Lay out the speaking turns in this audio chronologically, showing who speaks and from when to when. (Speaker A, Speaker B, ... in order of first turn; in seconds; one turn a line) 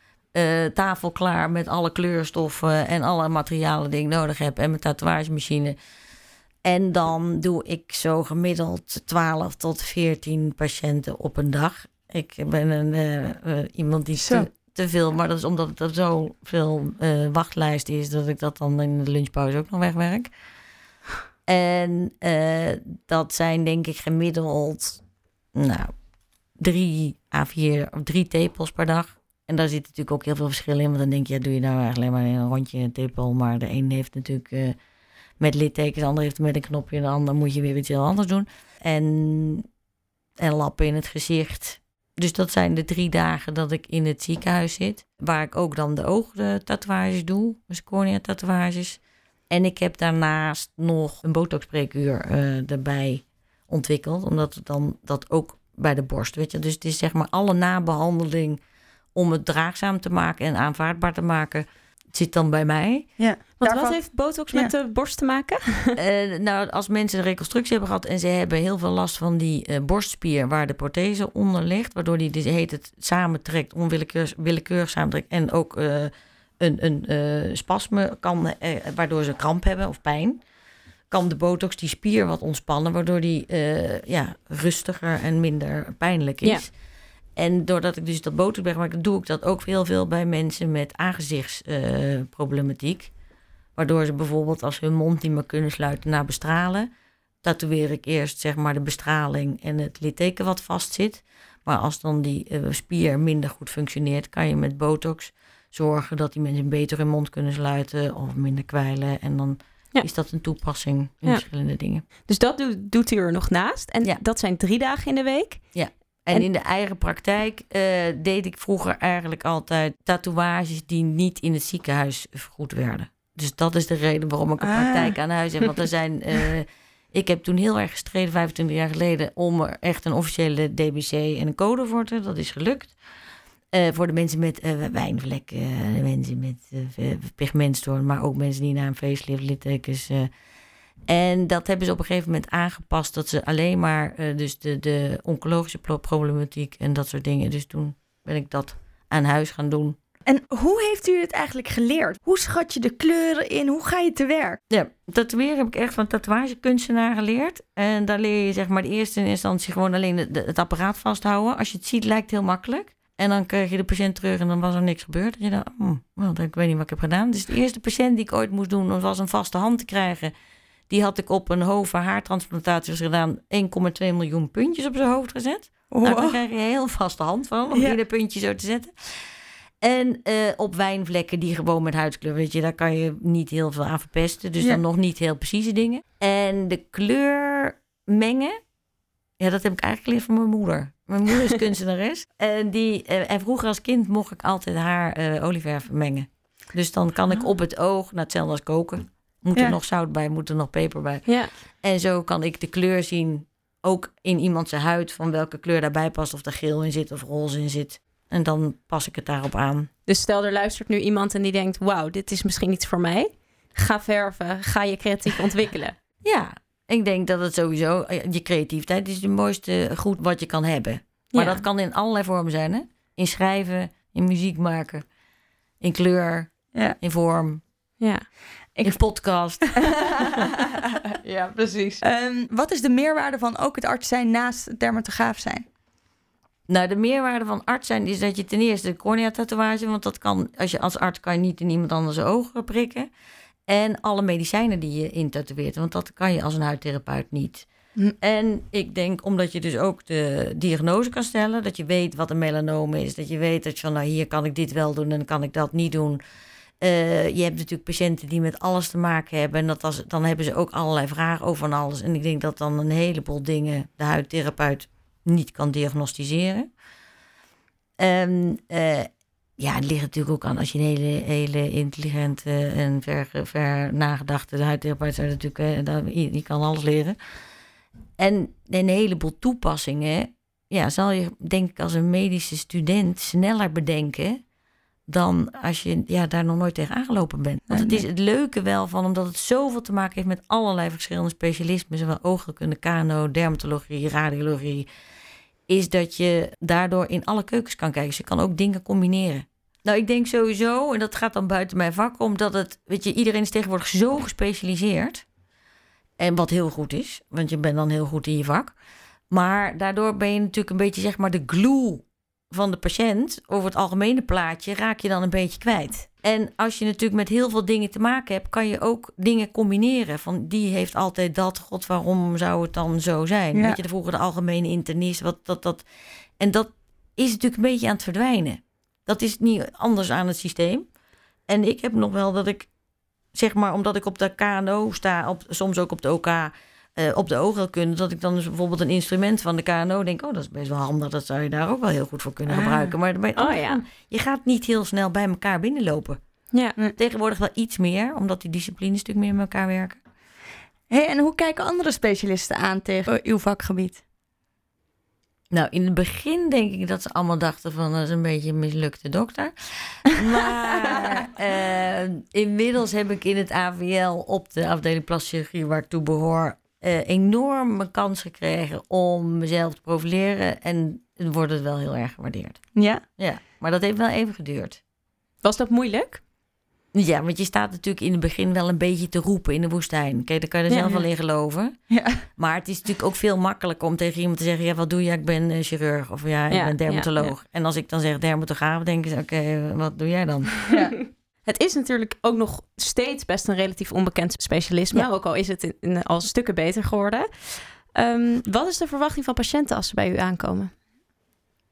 Speaker A: 0.3-5.8
Speaker A: 6.6-20.3
Speaker B: 14.2-14.4
Speaker A: 21.5-25.0
Speaker A: 25.5-25.9
Speaker A: 26.6-34.8
Speaker A: 35.4-39.7
Speaker A: 40.4-49.0
Speaker A: 49.5-58.6
Speaker A: 59.1-63.1
Speaker B: 63.2-64.7
Speaker C: 63.6-66.0
Speaker A: 66.0-80.4
Speaker A: 81.1-86.7
Speaker A: 87.3-93.1
Speaker A: 93.8-96.9
Speaker A: 97.4-112.0
Speaker C: 112.2-115.7
Speaker A: 115.7-132.9
Speaker B: 124.6-125.1
Speaker A: 133.7-140.3
Speaker A: 141.1-150.0
Speaker B: 150.3-154.6
Speaker A: 154.7-170.3
Speaker A: 170.9-179.2
Speaker B: 175.9-176.4
Speaker B: 177.7-178.0
Speaker A: 179.8-188.6
Speaker A: 189.4-209.9
Speaker C: 201.2-201.5
Speaker C: 210.1-216.0
Speaker A: 216.2-225.0
Speaker C: 221.3-221.6
Speaker A: 225.8-227.6
Speaker C: 228.0-228.3
Speaker A: 228.8-230.4
Speaker B: 229.8-235.7
Speaker A: 236.7-243.1
Speaker A: 243.7-247.7
Speaker A: 248.2-256.2
Speaker A: 256.8-266.7
Speaker A: 268.0-277.1
Speaker A: 278.2-284.4
Speaker A: 285.1-294.9
Speaker B: 287.7-288.0
Speaker A: 295.7-305.2
Speaker A: 306.2-308.7
Speaker A: 309.3-325.8
Speaker B: 323.5-323.8
Speaker A: 326.4-330.9
Speaker A: 331.5-332.7
Speaker A: 333.3-346.2
Speaker B: 342.5-342.9
Speaker C: 343.4-343.8
Speaker A: 346.9-350.0
Speaker B: 350.9-354.0
Speaker A: 355.5-374.8
Speaker B: 360.9-361.1
Speaker B: 372.8-373.0
Speaker C: 375.4-376.2
Speaker A: 376.9-390.5
Speaker C: 380.7-381.0
Speaker B: 381.9-382.2
Speaker C: 386.5-387.3
Speaker B: 390.7-390.9
Speaker C: 391.4-400.7